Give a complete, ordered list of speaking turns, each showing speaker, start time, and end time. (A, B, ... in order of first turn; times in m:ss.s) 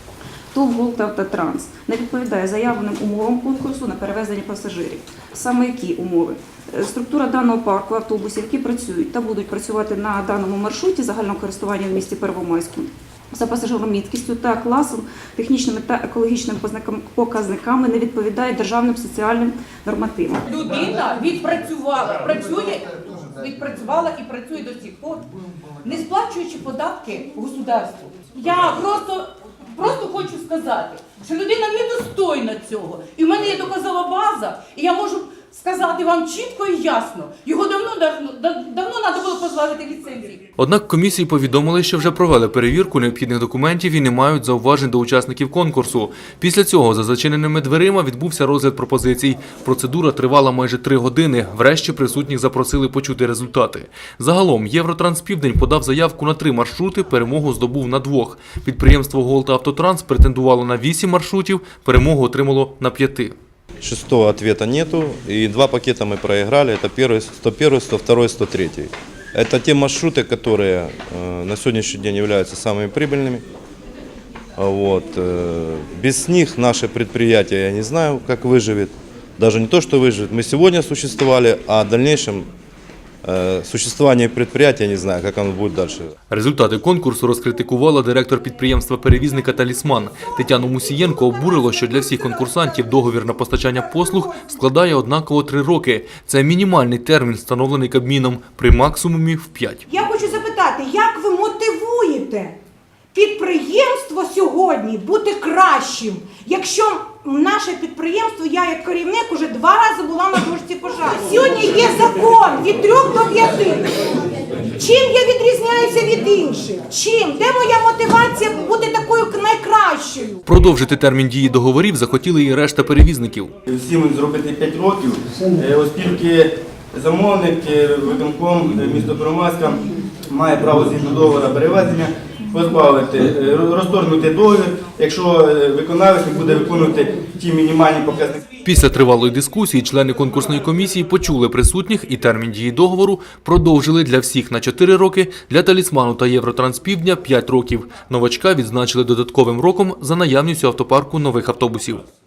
0:00.5-0:20.4 A
0:20.5-0:25.3 B
0:25.8-0:40.4 B
0:40.6-1:03.3 C
1:03.8-1:13.4 D
1:14.6-1:22.5 D
1:23.2-1:26.1 D
1:26.3-1:39.8 C
1:30.2-1:34.2 E
1:39.9-1:42.6 E
1:43.1-2:00.4 E
2:00.5-2:03.5 C
2:03.7-2:18.4 F
2:18.6-2:32.0 C